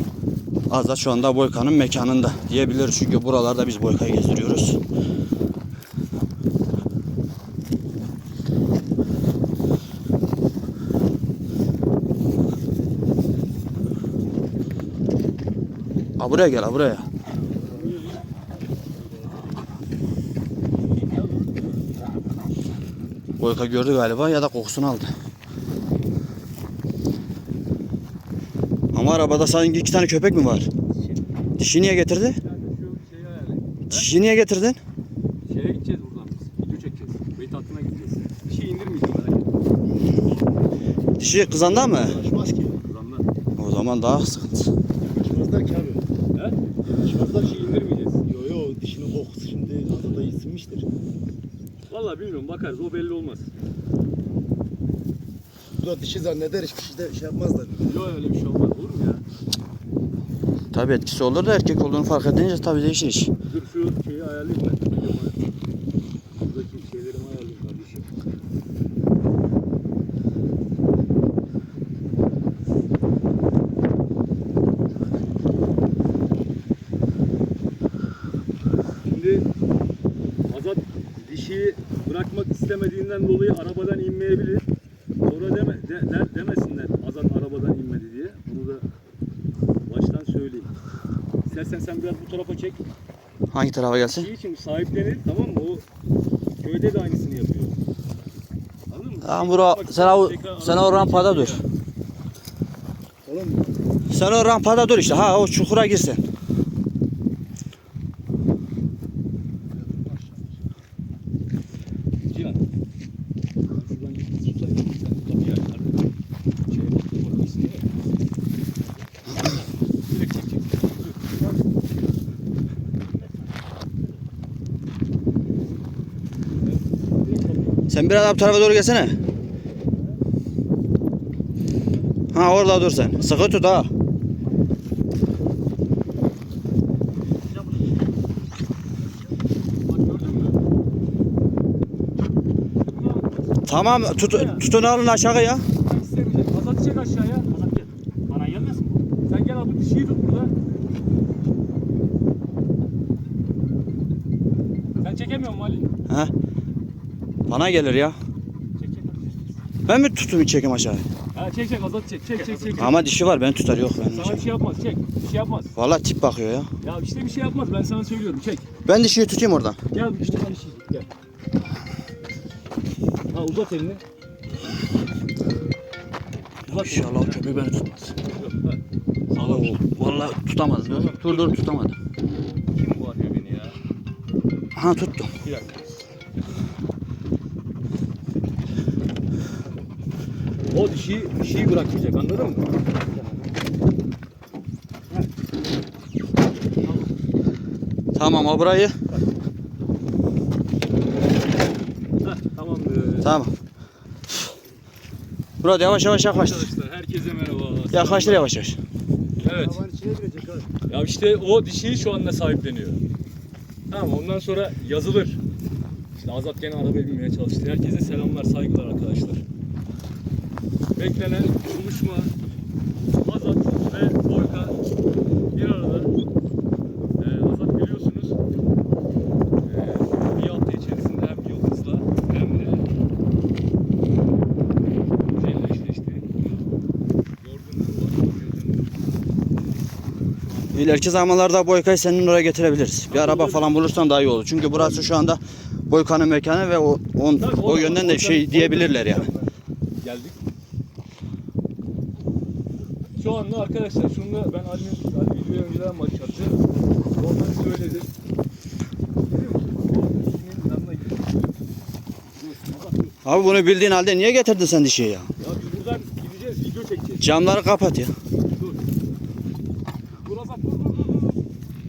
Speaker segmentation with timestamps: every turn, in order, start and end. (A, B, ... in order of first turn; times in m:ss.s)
0:00.7-0:04.8 A
0:16.2-0:17.1 A
0:17.6-0:18.2 B
0:17.6-0:18.2 C
0:21.0-0:21.6 C
0:23.4-0:25.1 A
0:28.9-0:30.7 A
0:31.6-0:32.4 A
0:32.4-0:34.1 C
0:33.9-0:34.8 A
0:35.5-0:39.6 C
0:41.2-0:42.2 A
0:41.4-0:42.8 B
0:42.8-0:43.2 C
0:43.6-0:44.7 A
0:45.0-0:46.0 B
0:47.0-0:50.9 B
0:47.1-0:48.2 C
0:51.9-0:53.5 C
0:55.8-0:58.1 B
0:57.8-0:59.2 C
1:00.7-1:03.3 A
1:03.4-1:05.4 C
1:06.4-1:08.1 C
1:19.0-1:19.5 C
1:20.5-1:24.6 C
1:25.2-1:28.9 C
1:29.9-1:30.7 C
1:31.4-1:32.8 C
1:33.5-1:34.3 A
1:34.0-1:35.8 C
1:36.6-1:37.8 C
1:38.9-1:41.6 C
1:39.2-1:41.6 A
1:43.2-1:43.7 B
1:44.1-1:46.2 A
1:49.8-1:50.4 B
1:52.3-1:52.6 C
1:53.7-1:56.0 C
1:56.7-1:57.9 C
2:00.1-2:01.5 C
2:06.6-2:07.8 C
2:07.9-2:09.2 A
2:12.3-2:13.9 A
2:19.9-2:20.6 C
2:22.8-2:24.6 C
2:23.7-2:25.6 A
2:25.8-2:27.5 C
2:27.5-2:29.0 B
2:29.2-2:30.5 C
2:35.0-2:35.9 C
2:37.5-2:38.2 A
2:38.9-2:39.1 C
2:39.9-2:41.1 A
2:41.3-2:42.9 C
2:42.8-2:44.4 A
2:44.1-2:45.7 C
2:45.8-2:46.7 A
2:46.8-2:48.7 C
2:48.9-2:49.8 A
2:49.9-2:51.1 C
2:53.3-2:54.0 C
2:56.7-2:57.6 C
2:56.7-2:58.2 A
2:58.2-2:59.8 C
2:59.4-3:02.0 A
3:00.8-3:01.6 C
3:02.7-3:03.8 C
3:04.7-3:05.3 A
3:05.4-3:05.8 C
3:10.7-3:12.7 C
3:16.8-3:17.2 C
3:18.2-3:18.9 A
3:22.2-3:23.3 C
3:23.2-3:23.5 A
3:25.6-3:26.7 A
3:26.2-3:28.5 C
3:27.9-3:28.8 A
3:29.4-3:29.8 C
3:29.4-3:30.7 B
3:30.9-3:33.0 C
3:33.9-3:35.4 C
3:36.1-3:39.4 C
3:40.9-3:42.3 C
3:43.2-3:44.8 C
3:45.5-3:46.1 C
3:47.2-3:48.4 C
3:49.6-3:52.8 C
3:55.3-3:56.4 C
3:57.4-3:59.0 C
4:00.4-4:01.0 C
4:00.7-4:09.3 A
4:03.1-4:03.8 C
4:04.7-4:05.1 C
4:07.4-4:10.4 C
4:13.2-4:16.6 C
4:17.2-4:18.1 C
4:19.3-4:21.5 C
4:22.3-4:23.6 C
4:23.2-4:25.3 A
4:25.4-4:27.4 C
4:27.2-4:28.1 A
4:28.4-4:28.8 C
4:30.2-4:31.4 C